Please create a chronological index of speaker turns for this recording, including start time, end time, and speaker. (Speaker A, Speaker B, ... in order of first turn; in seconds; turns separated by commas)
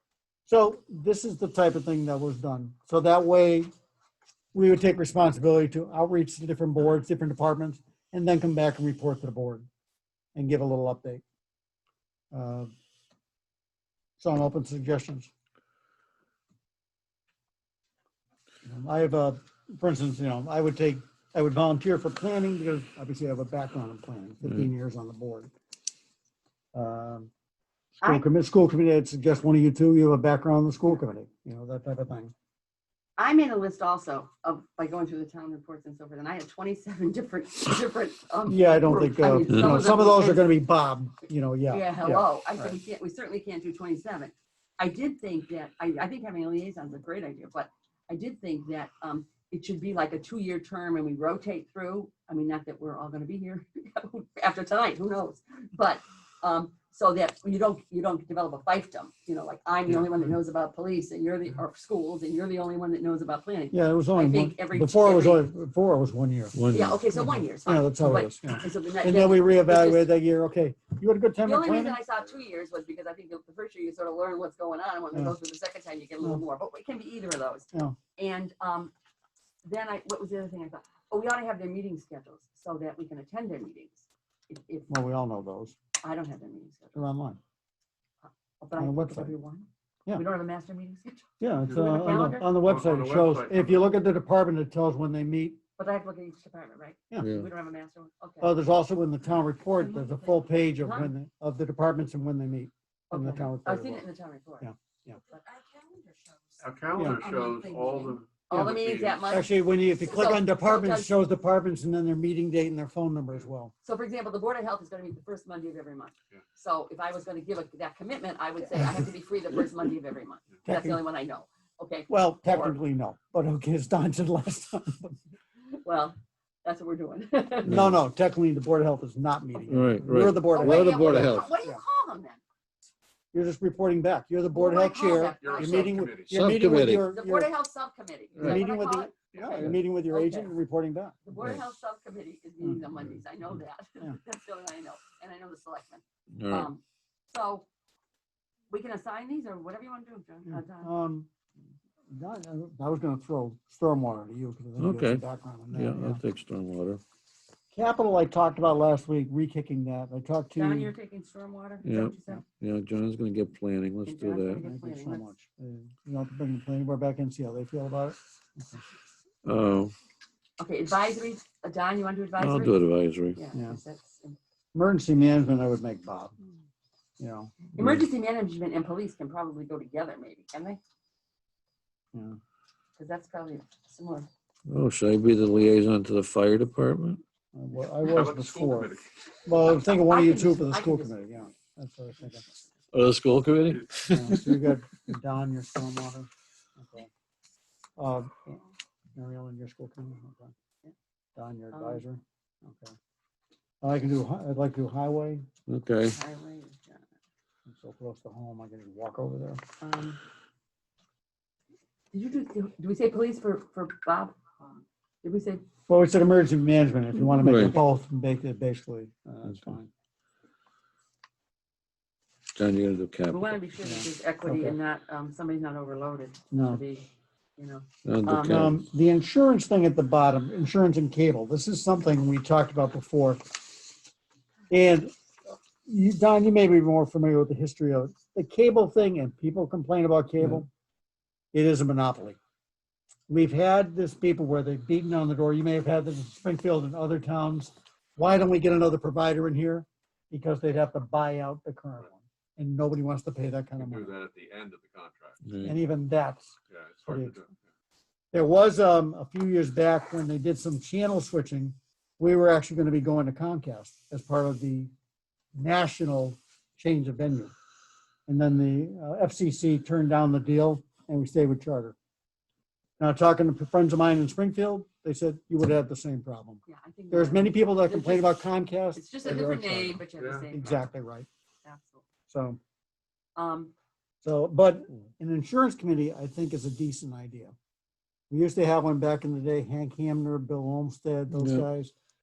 Speaker A: 0.5-3.7, Speaker A: 4.5-9.7, Speaker A: 10.4-11.2, Speaker A: 12.3-12.7, Speaker A: 14.2-15.3, Speaker A: 18.6-25.5, Speaker A: 26.7-27.3, Speaker A: 28.0-32.3, Speaker B: 33.2-40.5, Speaker A: 38.5-42.8, Speaker C: 39.5-39.8, Speaker B: 41.7-65.5, Speaker A: 63.7-66.6, Speaker C: 66.5-67.0, Speaker B: 66.7-70.1, Speaker A: 67.2-72.0, Speaker B: 71.4-78.9, Speaker B: 79.7-84.9, Speaker A: 84.9-85.8, Speaker B: 86.0-87.0, Speaker A: 87.0-87.4, Speaker B: 88.6-92.5, Speaker A: 88.8-89.3, Speaker A: 91.4-95.6, Speaker D: 91.7-93.8, Speaker B: 95.8-98.5, Speaker C: 97.2-97.5, Speaker A: 98.4-104.0, Speaker B: 99.6-101.1, Speaker B: 103.1-111.2, Speaker A: 104.6-105.2, Speaker D: 106.6-109.3, Speaker A: 107.0-107.2, Speaker A: 109.3-113.7, Speaker B: 113.8-122.8, Speaker A: 120.7-121.0, Speaker A: 122.1-125.2, Speaker B: 125.8-127.8, Speaker C: 127.7-128.0, Speaker A: 127.7-131.8, Speaker C: 129.7-131.5, Speaker B: 130.5-132.4, Speaker A: 133.3-137.5, Speaker B: 134.5-136.1, Speaker D: 135.4-136.5, Speaker C: 136.3-137.1, Speaker B: 136.8-140.5, Speaker A: 138.4-141.2, Speaker B: 141.2-147.7, Speaker C: 146.4-146.7, Speaker B: 148.7-150.9, Speaker A: 150.5-151.3, Speaker A: 152.1-156.2, Speaker C: 154.8-157.0, Speaker A: 157.7-160.9, Speaker B: 160.5-162.4, Speaker C: 161.8-164.7, Speaker B: 164.1-165.3, Speaker A: 164.6-168.8, Speaker C: 169.4-169.9, Speaker B: 170.6-172.8, Speaker C: 172.4-173.4, Speaker B: 173.3-174.4, Speaker A: 174.8-176.3, Speaker A: 177.2-177.5, Speaker B: 177.8-180.8, Speaker B: 183.0-184.3, Speaker C: 184.7-187.2, Speaker A: 187.6-192.4, Speaker D: 188.0-189.1, Speaker B: 189.8-191.4, Speaker C: 192.9-194.7, Speaker A: 194.1-197.1, Speaker A: 198.0-198.6, Speaker A: 199.2-200.5, Speaker A: 201.4-202.9, Speaker B: 201.7-202.0, Speaker A: 203.8-205.4, Speaker C: 205.7-206.2, Speaker B: 206.1-207.0, Speaker A: 207.7-209.6, Speaker B: 209.8-210.2, Speaker B: 212.1-215.6, Speaker A: 215.9-219.9, Speaker C: 217.4-217.8, Speaker C: 219.4-219.8, Speaker C: 222.6-223.6, Speaker B: 223.3-228.7, Speaker A: 223.8-224.8, Speaker A: 226.5-226.8, Speaker C: 228.1-228.8, Speaker A: 228.4-233.8, Speaker A: 234.7-235.1, Speaker A: 235.8-240.7, Speaker A: 241.5-242.4, Speaker A: 243.3-254.1, Speaker D: 253.8-255.4, Speaker C: 255.4-255.8, Speaker A: 255.6-256.5, Speaker D: 256.7-257.6, Speaker A: 257.1-257.4, Speaker A: 258.3-264.9, Speaker A: 265.6-267.5, Speaker A: 268.3-272.0, Speaker A: 273.0-281.3, Speaker B: 276.7-280.8, Speaker D: 280.2-280.5, Speaker B: 281.6-282.1, Speaker A: 282.3-282.6, Speaker B: 283.4-283.7, Speaker A: 284.2-287.6, Speaker A: 288.3-291.9, Speaker C: 291.3-291.7